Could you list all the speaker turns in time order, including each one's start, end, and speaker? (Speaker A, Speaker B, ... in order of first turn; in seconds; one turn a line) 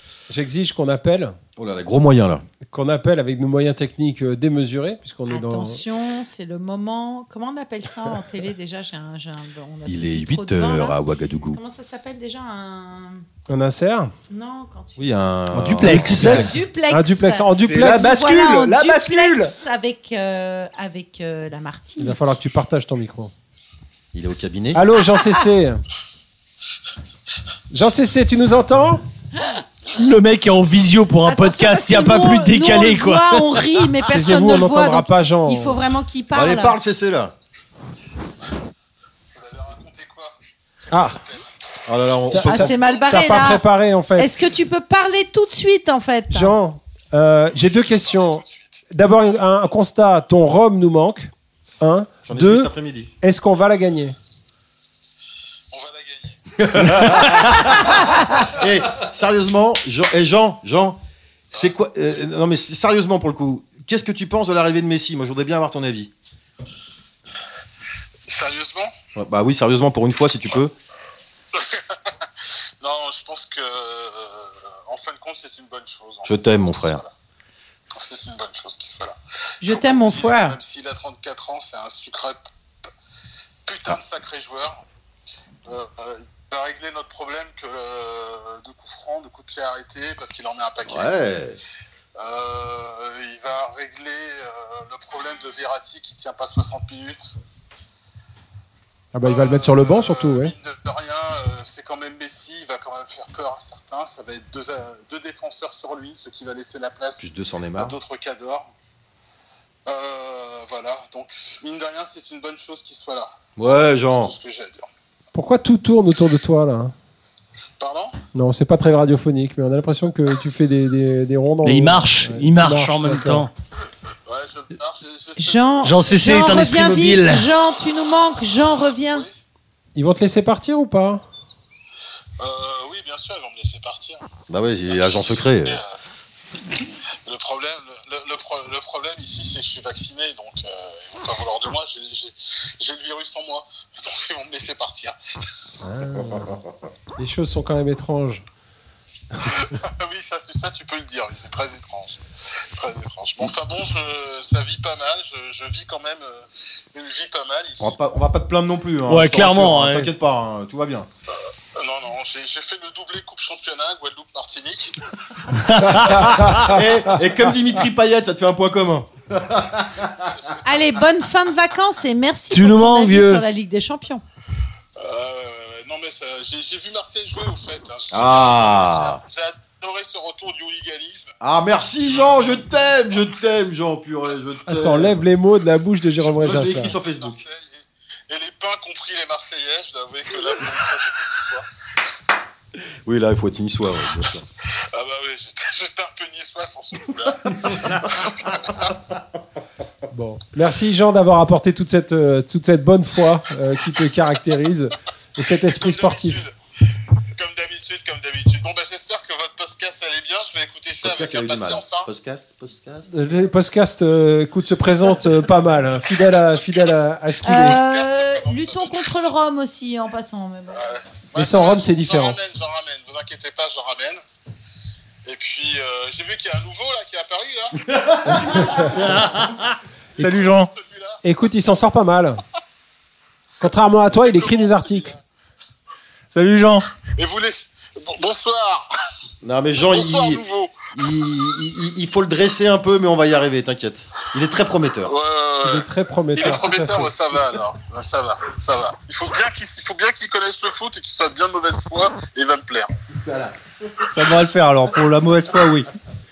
Speaker A: 0.3-1.4
Speaker B: 1.6-2.5
Speaker A: 2.7-5.8
Speaker C: 5.3-13.2
Speaker B: 9.9-11.6
Speaker A: 13.5-14.1
Speaker C: 14.3-15.1
Speaker B: 15.0-16.6
Speaker D: 15.6-16.6
Speaker A: 15.6-18.1
Speaker C: 16.2-22.2
Speaker E: 17.6-19.6
Speaker A: 22.0-23.3
Speaker B: 24.1-24.9
Speaker A: 24.7-25.8
Speaker A: 27.7-29.0
Speaker D: 29.9-33.8
Speaker C: 31.2-36.8
Speaker A: 34.1-35.8
Speaker B: 36.3-37.3
Speaker F: 39.3-40.4
Speaker A: 40.9-41.2
Speaker F: 40.9-41.5
Speaker B: 41.9-42.8
Speaker C: 42.3-43.6
Speaker A: 42.4-44.3
Speaker C: 44.2-46.5
Speaker A: 46.3-52.7
Speaker F: 47.5-48.8
Speaker B: 52.3-53.1
Speaker A: 53.2-54.2
Speaker F: 55.7-56.4
Speaker B: 56.6-61.0
Speaker B: 61.5-66.1
Speaker F: 68.3-68.9
Speaker B: 69.2-70.7
Speaker F: 71.5-72.0
Speaker F: 72.8-77.1
Speaker B: 76.2-77.0
Speaker F: 78.0-82.4
Speaker C: 79.6-80.6
Speaker F: 83.7-84.8
Speaker F: 85.7-91.3
Speaker B: 90.8-91.6
Speaker F: 92.2-97.3
Speaker A: 99.1-100.5
Speaker F: 99.2-108.7
Speaker B: 107.2-108.0
Speaker F: 109.9-114.9
Speaker B: 113.6-114.3
Speaker A: 115.3-116.9
Speaker F: 117.8-118.2
Speaker A: 118.3-123.5
Speaker D: 121.6-123.5
Speaker F: 124.3-126.5
Speaker C: 125.4-129.3
Speaker D: 125.8-127.5
Speaker A: 129.9-131.2
Speaker F: 132.4-134.2
Speaker B: 134.5-135.8
Speaker F: 134.9-135.9
Speaker F: 137.3-145.1
Speaker A: 145.8-146.6
Speaker A: 147.2-148.4
Speaker F: 149.4-152.2
Speaker F: 152.7-157.9
Speaker B: 157.8-161.1
Speaker D: 159.1-160.1
Speaker F: 161.8-164.9
Speaker D: 165.6-166.7
Speaker A: 165.9-166.8
Speaker B: 166.1-170.3
Speaker C: 170.6-174.2
Speaker D: 172.5-173.4
Speaker F: 175.0-181.3
Speaker B: 178.1-179.2
Speaker B: 181.4-185.2
Speaker A: 184.7-186.9
Speaker F: 186.2-191.7
Speaker B: 186.4-187.4
Speaker B: 193.1-194.4
Speaker F: 194.9-198.9
Speaker A: 200.1-206.4
Speaker F: 205.6-206.5
Speaker F: 207.4-212.1
Speaker B: 211.0-213.1
Speaker A: 213.1-217.8
Speaker F: 216.2-219.3
Speaker C: 217.4-220.8
Speaker F: 220.7-224.2
Speaker A: 221.3-222.4
Speaker F: 225.2-229.6
Speaker E: 230.2-230.7
Speaker F: 230.2-231.2
Speaker A: 231.2-232.4
Speaker A: 233.6-235.1
Speaker F: 234.1-235.2
Speaker E: 236.3-236.8
Speaker F: 237.2-238.9
Speaker B: 239.4-240.4
Speaker F: 239.8-240.9
Speaker B: 240.9-245.1
Speaker F: 245.1-252.9
Speaker A: 245.6-247.2
Speaker B: 253.2-253.6
Speaker E: 254.1-255.9